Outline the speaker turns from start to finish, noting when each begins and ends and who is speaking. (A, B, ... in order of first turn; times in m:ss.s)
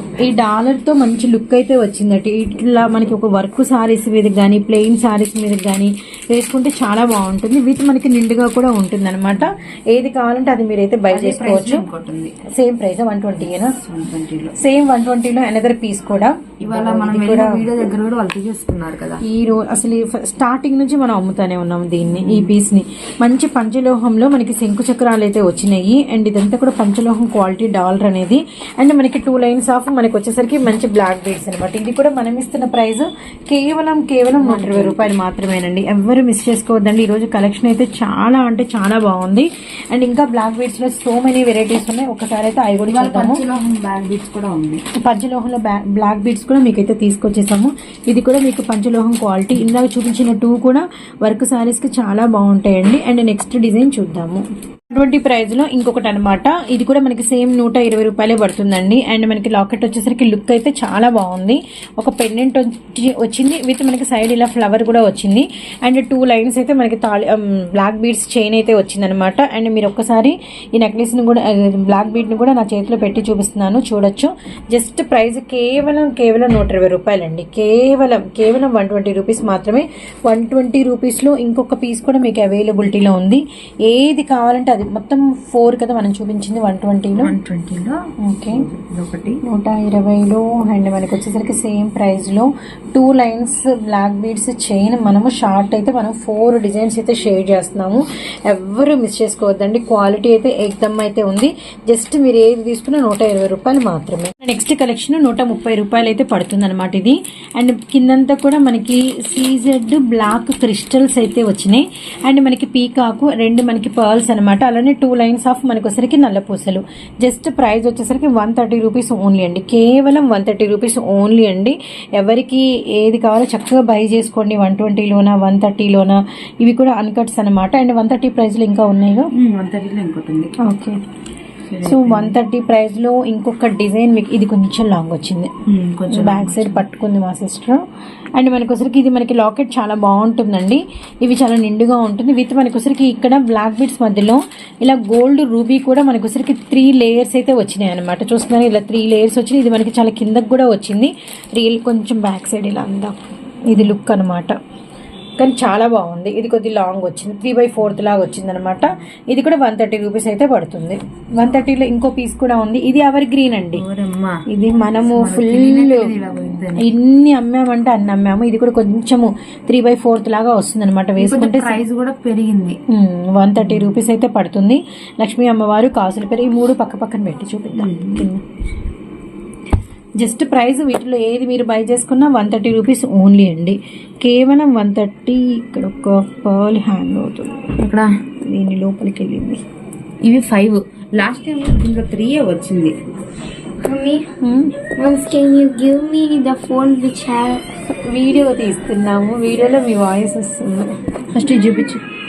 0:00.2-0:11.8 A
0:11.1-0:12.3 B
0:12.5-0:13.7 A
0:13.7-0:14.5 B
0:14.6-0:17.6 A
0:16.6-0:19.2 B
0:19.2-0:43.4 A
0:22.1-0:22.5 B
0:34.4-0:35.1 B
0:42.9-0:44.8 B
0:45.0-1:27.3 A
1:27.2-1:29.4 B
1:28.2-1:28.6 A
1:29.4-2:09.3 A
2:09.3-2:10.6 B
2:10.6-2:11.0 A
2:11.7-2:12.4 B
2:11.8-2:15.5 A
2:15.6-2:16.8 B
2:16.1-2:17.8 A
2:18.4-2:34.6 A
2:35.4-2:43.8 A
2:43.7-2:44.4 B
2:44.5-2:46.1 A
2:45.1-2:46.9 B
2:46.8-2:51.8 A
2:51.2-2:52.8 B
2:52.9-2:58.4 A
2:57.8-2:58.3 B
3:00.2-3:07.7 A
3:07.8-3:08.1 B
3:08.4-3:09.6 A
3:10.2-3:13.0 B
3:13.8-3:17.6 C
3:14.4-3:14.8 A
3:18.0-3:22.0 A